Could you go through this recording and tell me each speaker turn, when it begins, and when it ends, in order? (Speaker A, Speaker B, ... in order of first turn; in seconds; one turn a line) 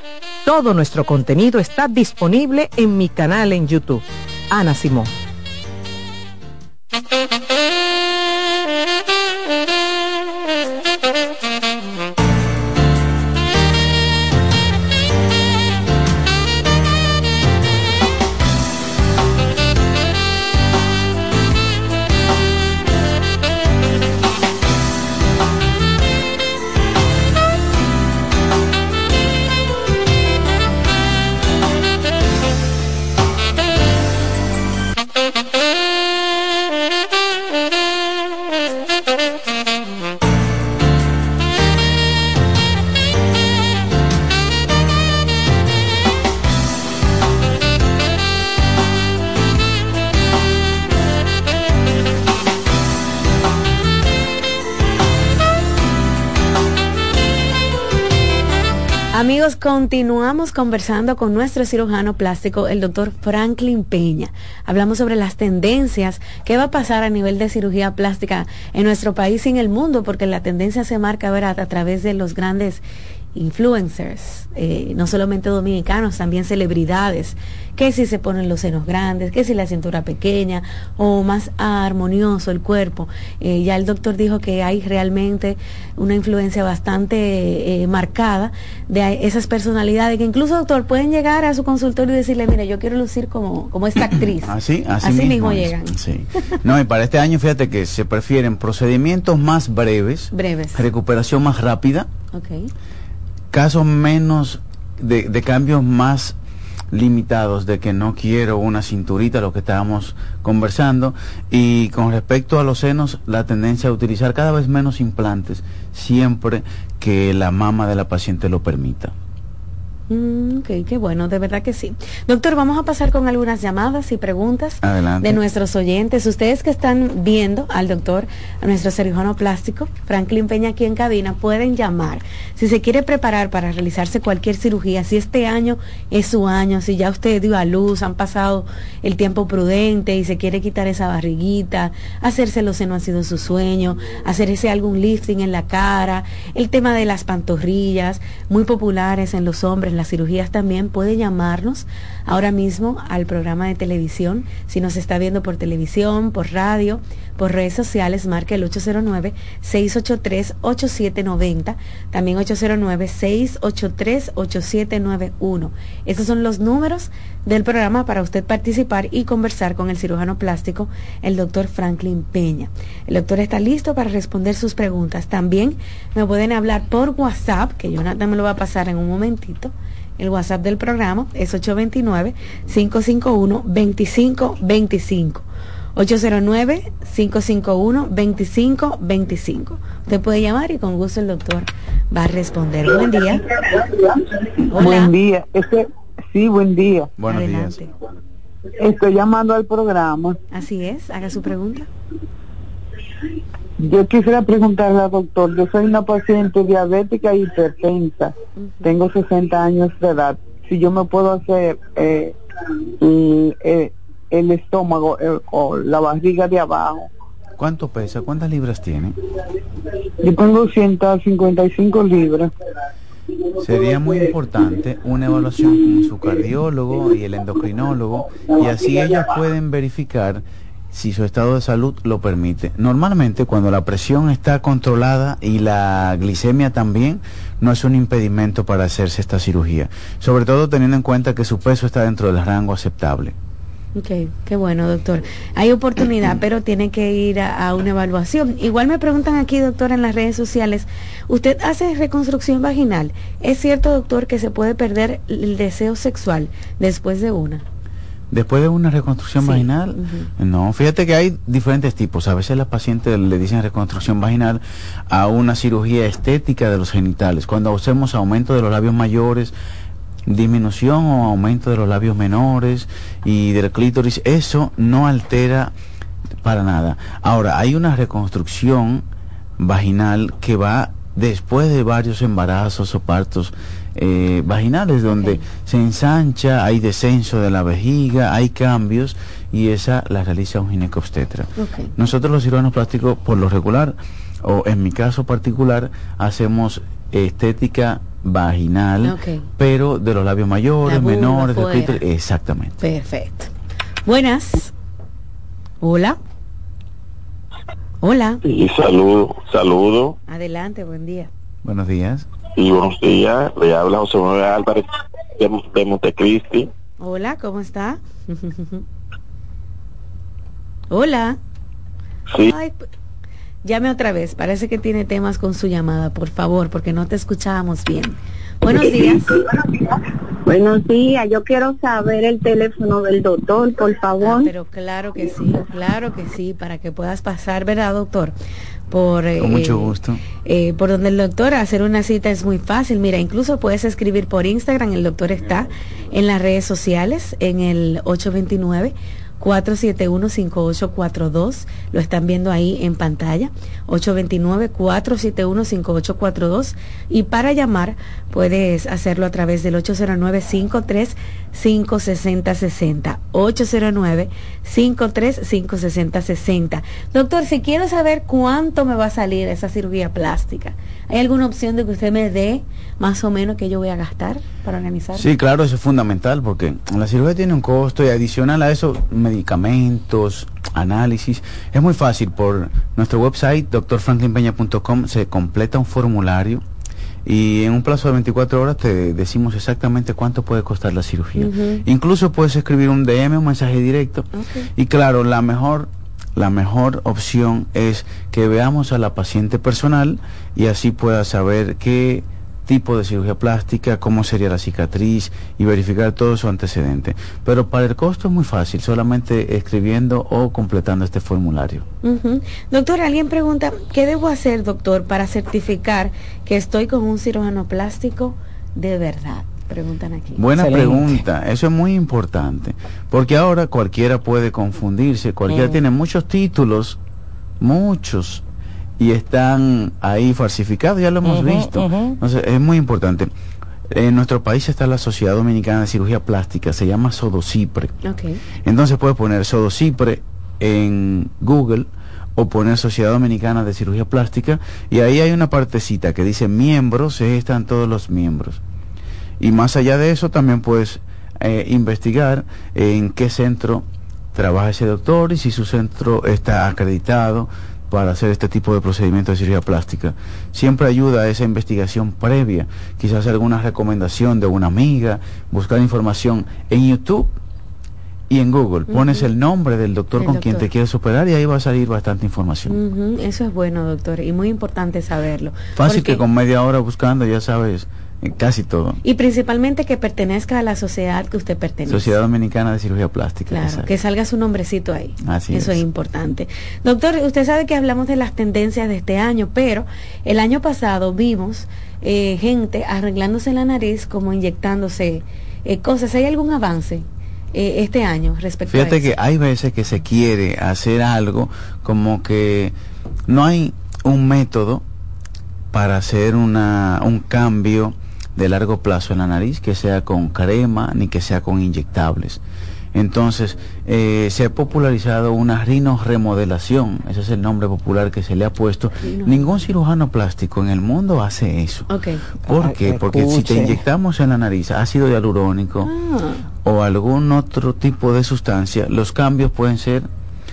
Speaker A: 0.4-5.1
Speaker B: 59.1-72.8
Speaker B: 73.3-94.5
Speaker C: 94.1-102.1
Speaker B: 95.0-96.0
Speaker B: 100.3-100.8
Speaker B: 102.3-102.7
Speaker C: 103.5-106.4
Speaker C: 106.9-119.1
Speaker B: 120.1-193.4
Speaker C: 124.8-125.4
Speaker B: 194.7-195.1
Speaker D: 194.7-197.1
Speaker C: 197.2-197.8
Speaker B: 197.2-197.9
Speaker D: 198.8-200.4
Speaker B: 200.5-201.9
Speaker D: 203.8-212.3
Speaker D: 213.0-217.1
Speaker C: 217.6-219.2
Speaker D: 220.2-222.5
Speaker C: 223.6-243.3
Speaker B: 243.9-257.6
Speaker C: 258.3-269.5
Speaker B: 259.4-260.3
Speaker C: 270.3-275.7
Speaker C: 276.4-279.0
Speaker C: 279.6-302.8
Speaker B: 291.6-291.9
Speaker B: 299.0-299.5
Speaker B: 300.8-302.0
Speaker B: 302.8-303.5
Speaker B: 304.1-304.7
Speaker B: 305.8-306.2
Speaker B: 308.0-308.4
Speaker E: 308.5-310.1
Speaker B: 310.3-311.3
Speaker C: 311.6-312.3
Speaker E: 312.6-314.8
Speaker E: 315.4-316.7
Speaker B: 317.0-318.8
Speaker B: 320.9-321.4
Speaker B: 322.4-322.9
Speaker B: 323.6-329.2
Speaker F: 328.7-329.8
Speaker F: 330.4-334.5
Speaker B: 334.2-338.4
Speaker B: 338.9-375.3
Speaker C: 339.4-340.2
Speaker C: 375.1-386.6
Speaker C: 387.2-411.9
Speaker B: 391.4-391.8
Speaker B: 394.3-394.7
Speaker B: 412.0-420.4
Speaker C: 420.4-427.0
Speaker A: 420.6-421.2
Speaker A: 425.5-425.8
Speaker C: 427.6-428.4
Speaker C: 429.0-433.3
Speaker A: 431.2-432.2
Speaker C: 433.9-437.9
Speaker B: 438.0-438.4
Speaker C: 438.6-448.6
Speaker C: 449.4-467.3
Speaker C: 468.3-472.8
Speaker B: 468.9-469.2
Speaker B: 470.2-470.6
Speaker B: 472.7-476.2
Speaker C: 475.8-479.0
Speaker B: 479.0-482.2
Speaker C: 481.9-483.9
Speaker B: 483.5-499.1
Speaker C: 485.2-485.8
Speaker C: 498.7-502.7
Speaker C: 503.3-504.8
Speaker C: 505.7-512.4
Speaker C: 512.9-521.9
Speaker B: 519.0-519.6
Speaker B: 521.9-522.2
Speaker C: 522.5-525.9
Speaker A: 522.5-523.8
Speaker B: 525.8-526.4
Speaker C: 526.6-530.1